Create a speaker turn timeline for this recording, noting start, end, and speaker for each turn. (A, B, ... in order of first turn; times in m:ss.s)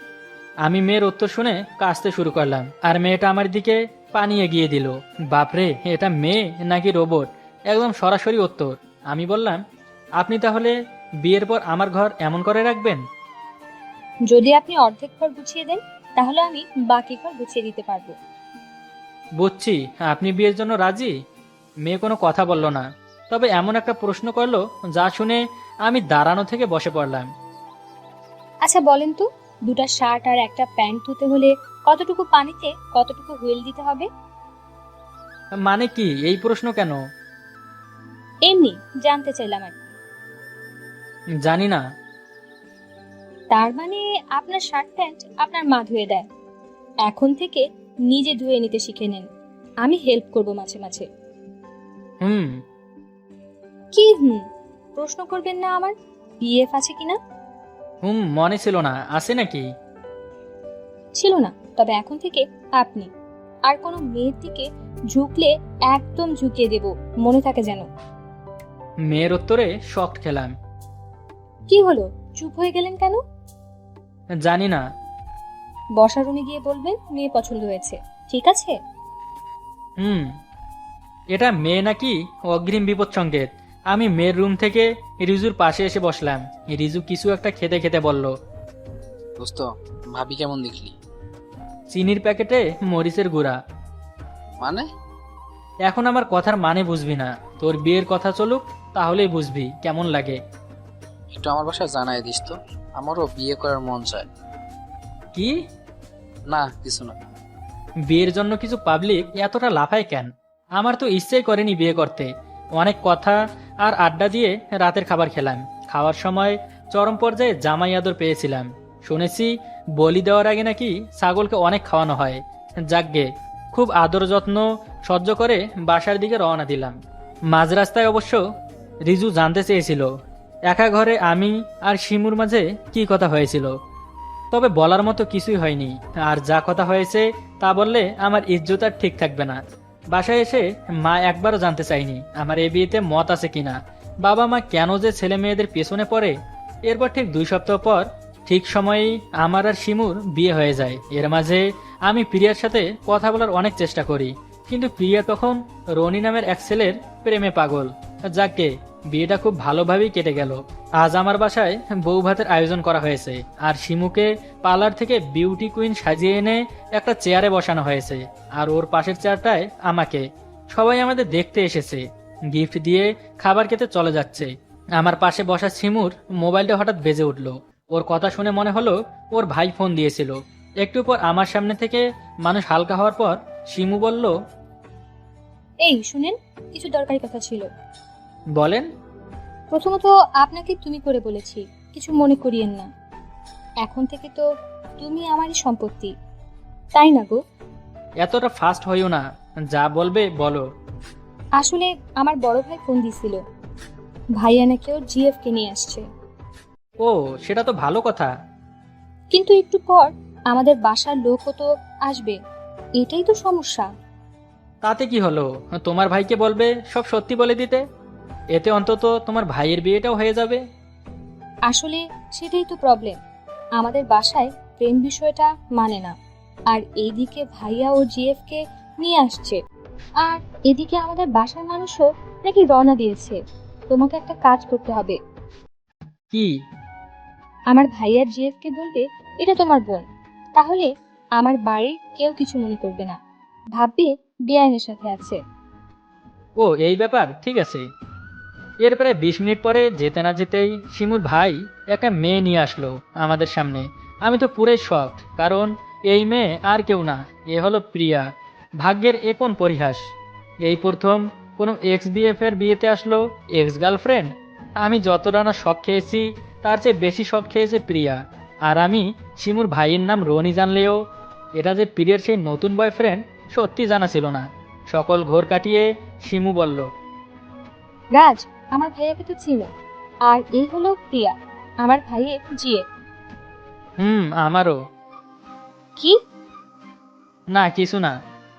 0:00.6-0:09.6 A
0:10.2-0:10.7 A
0:11.2-0:13.0 A
0:14.3-0:18.2 B
0:19.4-0:21.2 A
0:21.8-0:27.3 A
0:28.6-0:34.1 B
0:35.6-0:37.0 A
0:38.4-0:39.8 B
0:41.4-0:41.8 A
0:43.5-0:46.3 B
0:47.0-0:49.3 B
0:49.8-0:51.1 B
0:52.2-0:52.6 A
0:53.9-0:54.4 B
0:55.0-0:57.2 B
0:58.0-0:59.7 A
1:01.2-1:03.1 B
1:03.7-1:07.9 B
1:09.1-1:10.5 A
1:11.7-1:13.2 B
1:14.4-1:14.8 A
1:16.0-1:18.8 B
1:20.0-1:20.3 A
1:21.3-1:28.3 A
1:29.4-1:31.0 C
1:31.9-1:33.6 A
1:34.6-1:34.9 C
1:35.9-1:40.4 A
1:41.3-1:44.3 C
1:46.5-1:47.2 C
1:48.1-2:07.0 A
2:07.5-2:08.4 A
2:09.1-2:10.1 A
2:10.7-2:13.7 A
2:14.5-2:19.6 A
2:20.1-2:26.3 A
2:26.9-3:04.3 A
3:05.8-3:07.7 B
3:08.6-3:08.9 A
3:09.7-3:12.9 B
3:13.8-3:14.5 B
3:15.0-3:16.1 B
3:17.0-3:17.4 B
3:18.2-3:20.6 A
3:21.6-3:23.4 B
3:24.4-3:26.0 B
3:27.0-3:28.3 A
3:29.3-3:32.4 B
3:33.0-3:33.9 B
3:34.8-3:37.8 A
3:38.5-3:40.6 A
3:41.7-3:43.2 B
3:43.8-3:46.1 B
3:46.7-3:49.6 B
3:50.2-3:53.4 B
3:53.9-3:55.2 B
3:57.7-4:00.0 B
4:00.6-4:03.2 B
4:03.8-4:05.4 B
4:06.6-4:07.8 A
4:08.8-4:18.3 A
4:18.8-4:20.0 A
4:20.6-4:31.0 A
4:31.6-4:36.9 A
4:38.1-4:39.7 B
4:40.3-4:42.8 B
4:44.0-4:44.8 A
4:47.5-4:48.1 A